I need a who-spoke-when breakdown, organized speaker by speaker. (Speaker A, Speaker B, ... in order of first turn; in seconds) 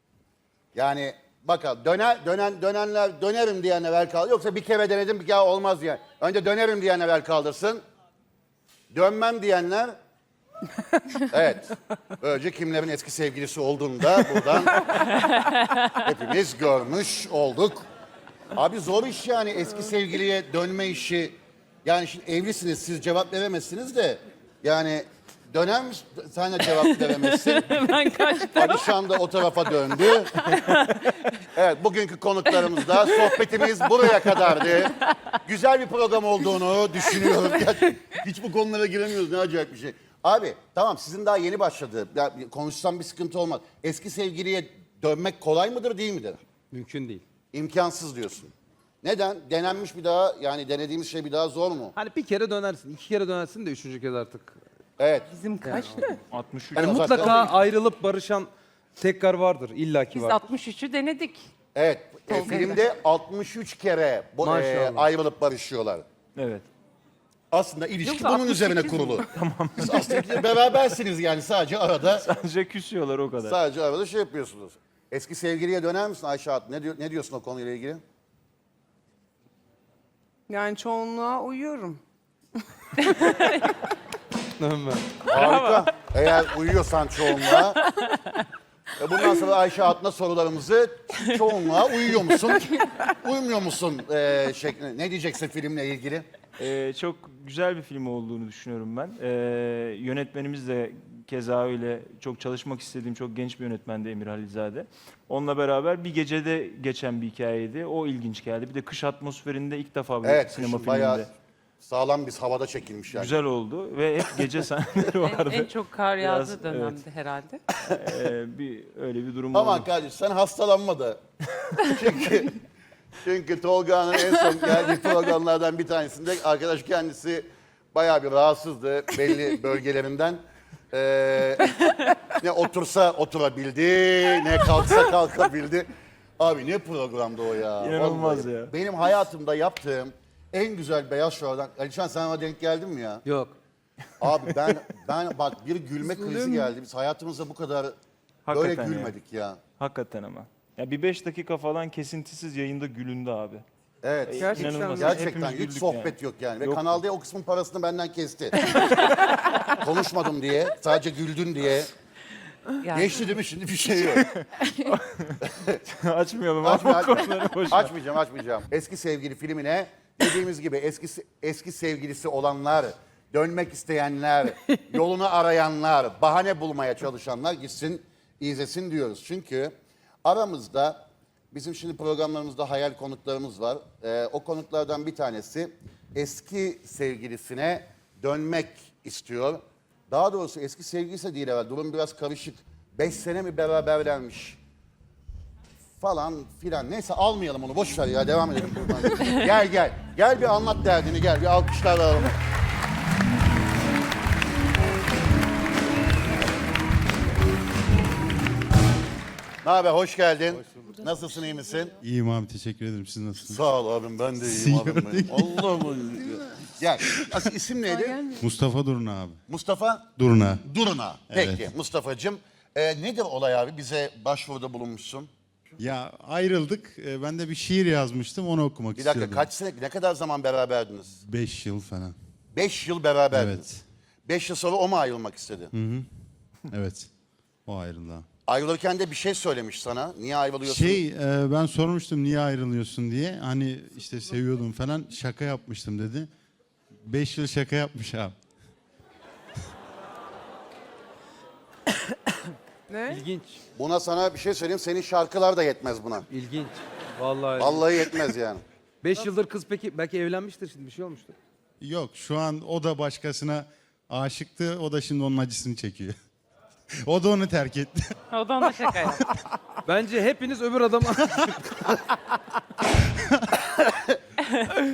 Speaker A: 0.7-7.8, 8.9-9.9, 11.3-14.9, 15.8-17.9, 18.5-27.8, 28.5-30.5, 31.5-46.4, 47.5-51.9, 55.0-55.3, 56.7-57.5, 61.7-66.0, 67.5-69.2, 69.8-72.2, 73.4-78.0, 85.2-87.8, 89.0-96.3, 110.2-111.3, 111.8-113.3, 119.5-121.2, 121.8-122.6, 123.2-131.8, 132.3-143.2, 144.2-147.9, 148.5-149.6, 154.0-158.8, 159.7-161.9, 162.9-164.2, 165.4-165.8, 166.6-179.7, 180.2-194.6, 196.0-202.3, 209.6-212.0, 213.4-218.3, 219.5-220.1, 220.6-225.3, 228.9-231.2, 232.5-233.7, 234.2-235.7, 238.4-241.0, 253.8-256.2, 257.6-258.6, 273.9-274.1
Speaker B: 27.2-28.9, 30.3-31.1, 55.3-56.2, 60.1-61.4, 62.3-62.8, 68.0-69.3, 83.0-83.7, 85.3-85.9, 87.8-88.3, 115.2-117.6, 162.8-163.1, 268.3-269.2
Speaker C: 46.7-47.2, 51.9-54.6, 55.7-56.1, 56.8-60.4, 64.4-65.1, 84.6-85.1, 143.2-143.6, 253.1-253.6, 256.3-258.0, 259.0-261.4, 269.9-271.9
Speaker D: 56.3-57.5, 66.3-66.7, 69.3-70.2, 72.2-73.6, 96.6-111.3, 113.1-117.0, 117.8-119.9, 137.8-138.7, 148.4-149.2, 149.8-153.6, 154.2-157.0, 158.7-159.4, 164.1-167.9
Speaker E: 80.5-82.0, 146.0-146.7, 154.3-155.2, 217.9-218.3, 252.9-253.2
Speaker F: 212.0-213.6, 214.4-215.7, 218.3-219.4, 220.2-220.6, 221.3-221.7, 225.8-229.4, 231.2-232.1, 233.3-233.8, 235.7-236.1, 236.7-237.1, 237.7-238.2, 240.6-246.3, 247.1-248.3, 261.8-266.1, 267.0-268.1, 269.0-269.5, 273.1-273.5